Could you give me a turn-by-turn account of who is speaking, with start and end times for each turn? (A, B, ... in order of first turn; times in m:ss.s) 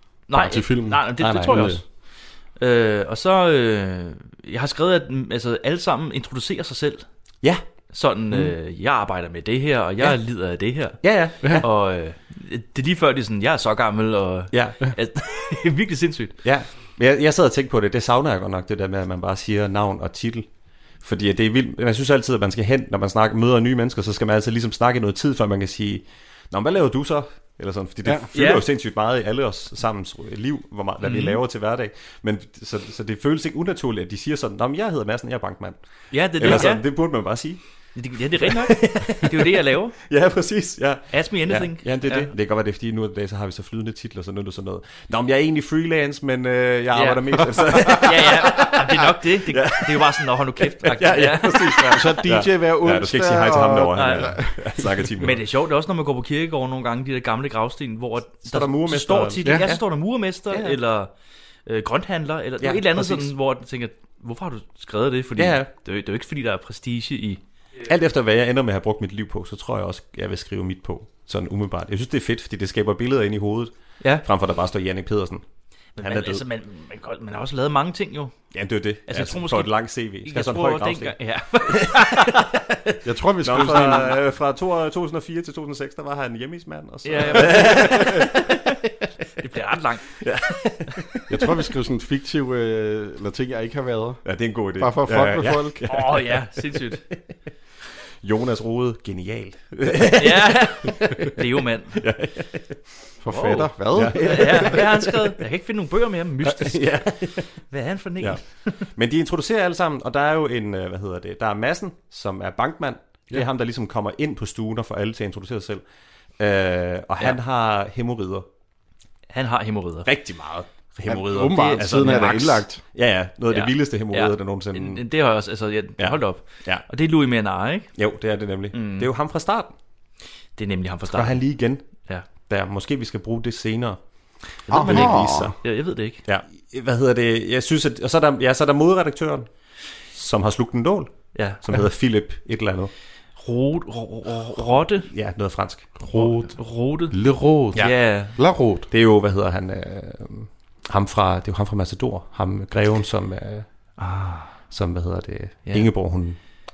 0:00.3-0:01.8 A
0:00.3-0:01.8 B
0:00.4-0:00.6 C
0:01.2-0:01.8 C
0:02.6-0:07.0 A
0:07.9-0:16.4 A
0:11.0-0:11.7 C
0:14.5-0:14.9 C
0:16.4-0:20.5 C
0:21.0-0:37.6 C
0:28.3-0:28.6 A
0:31.0-0:31.4 A
0:36.1-0:36.8 A
0:37.9-0:40.0 A
0:38.4-0:39.4 C
0:40.0-0:55.4 C
0:41.1-0:42.3 A
0:46.9-0:52.2 A
0:51.8-0:55.0 B
0:53.9-0:54.4 A
0:55.2-1:01.1 A
0:58.4-0:59.8 C
0:59.4-0:59.7 B
1:00.5-1:00.8 C
1:01.6-1:07.4 A
1:02.6-1:03.3 C
1:05.4-1:05.7 C
1:07.8-1:15.4 C
1:16.0-1:18.5 A
1:16.0-1:16.4 C
1:18.5-1:21.2 C
1:19.1-1:19.7 A
1:20.2-1:22.5 A
1:21.8-1:28.5 C
1:23.0-1:24.2 B
1:27.0-1:28.5 A
1:27.5-1:28.0 B
1:29.4-1:30.1 A
1:30.2-1:31.3 C
1:31.3-1:35.8 B
1:34.2-1:36.6 C
1:35.8-1:37.0 A
1:38.2-1:41.3 C
1:40.2-1:42.0 A
1:42.0-1:42.8 C
1:43.2-1:44.8 B
1:43.3-1:47.1 A
1:43.9-1:45.3 C
1:46.4-1:47.5 C
1:47.7-1:48.8 A
1:48.2-1:55.8 C
1:56.4-1:58.4 C
1:59.3-2:00.1 A
2:00.0-2:05.0 C
2:01.1-2:02.8 B
2:01.4-2:02.6 A
2:03.5-2:07.9 A
2:06.0-2:06.8 C
2:08.0-2:09.7 C
2:08.7-2:09.1 A
2:10.6-2:11.4 A
2:11.1-2:11.9 C
2:12.4-2:14.0 C
2:14.7-2:15.6 C
2:14.7-2:15.5 B
2:14.7-2:16.2 A
2:16.2-2:19.5 C
2:20.1-2:22.9 C
2:21.3-2:21.6 A
2:23.4-2:25.1 A
2:25.0-2:25.9 C
2:26.0-2:26.6 B
2:26.1-2:27.2 A
2:27.1-2:28.9 B
2:27.7-2:28.3 A
2:28.9-2:33.6 C
2:34.0-2:34.5 A
2:34.7-2:36.4 C